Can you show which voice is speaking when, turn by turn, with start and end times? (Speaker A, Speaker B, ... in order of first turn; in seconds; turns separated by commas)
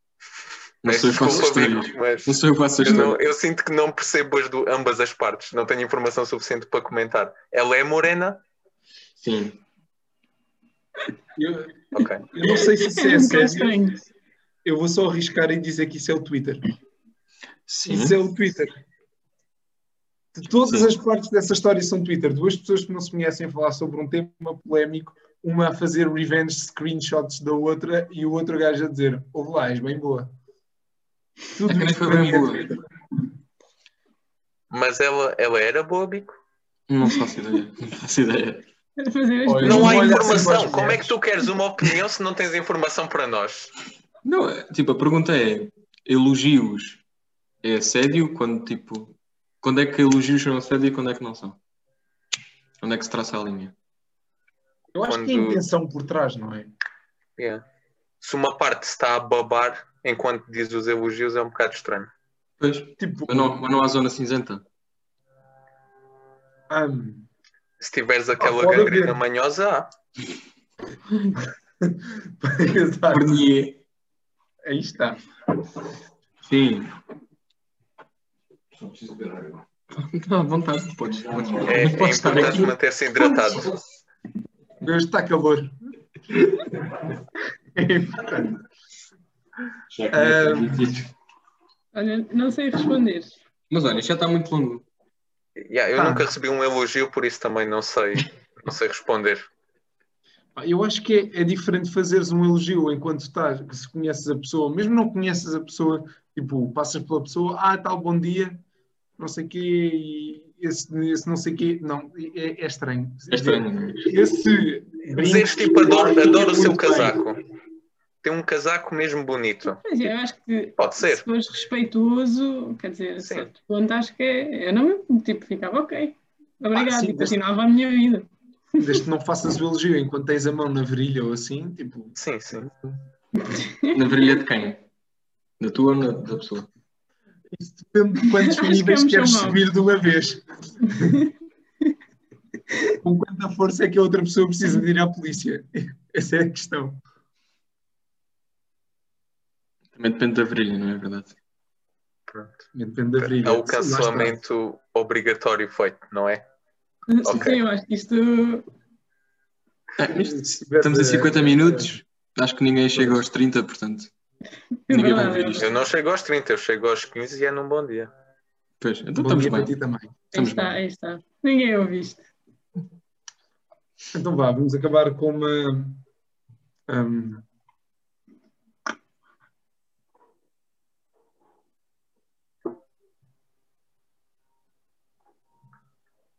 Speaker A: 0.8-3.2, Speaker B: 0.8-8.4, Speaker A: 9.2-9.6, Speaker C: 11.3-13.8, Speaker B: 11.9-12.2, Speaker D: 12.4-14.0, Speaker C: 14.6-16.6, Speaker A: 17.7-18.1, Speaker C: 17.9-18.7, Speaker C: 20.3-30.3, Speaker C: 31.5-32.8, Speaker A: 31.7-32.7, Speaker B: 34.7-36.4, Speaker A: 36.9-38.6, Speaker D: 39.0-40.4, Speaker C: 39.4-41.2, Speaker B: 39.6-43.7, Speaker A: 44.2-47.0, Speaker A: 47.6-51.6, Speaker A: 52.8-53.7, Speaker C: 54.9-56.7, Speaker B: 55.1-55.6, Speaker B: 57.4-57.6, Speaker B: 58.2-62.1, Speaker A: 62.6-64.6, Speaker C: 63.0-63.6, Speaker C: 66.7-67.3, Speaker B: 67.8-69.9, Speaker C: 68.4-69.2, Speaker C: 71.3-73.4, Speaker A: 73.1-73.8, Speaker C: 74.6-75.2, Speaker A: 76.4-76.9, Speaker A: 78.7-83.8, Speaker B: 81.6-83.7, Speaker C: 84.8-85.8, Speaker C: 87.7-88.6, Speaker A: 89.9-91.1, Speaker C: 90.1-91.0, Speaker D: 91.9-93.4, Speaker A: 93.7-94.8, Speaker B: 95.6-99.5, Speaker C: 95.9-96.3, Speaker C: 100.5-108.6, Speaker C: 109.2-117.3, Speaker A: 113.3-114.1, Speaker B: 115.0-117.4, Speaker B: 118.2-119.8, Speaker D: 119.6-129.0, Speaker B: 120.8-121.2, Speaker B: 123.2-123.5, Speaker C: 126.7-127.4, Speaker C: 128.8-133.0, Speaker B: 132.2-132.7, Speaker D: 133.4-134.0, Speaker A: 133.9-134.8, Speaker A: 135.6-136.7, Speaker C: 137.5-141.2, Speaker D: 138.4-139.6, Speaker C: 143.0-147.0, Speaker A: 149.9-151.3, Speaker B: 152.3-152.6, Speaker C: 152.7-154.4, Speaker B: 153.2-156.4, Speaker D: 157.1-158.7, Speaker B: 157.2-157.6, Speaker A: 160.0-164.1, Speaker C: 160.1-162.0, Speaker C: 162.9-163.2, Speaker D: 164.9-165.7, Speaker A: 164.9-165.7, Speaker B: 165.6-168.1, Speaker A: 168.8-169.7, Speaker C: 169.2-170.2, Speaker D: 170.3-172.2, Speaker A: 170.3-170.8, Speaker C: 174.1-176.0, Speaker C: 176.9-177.4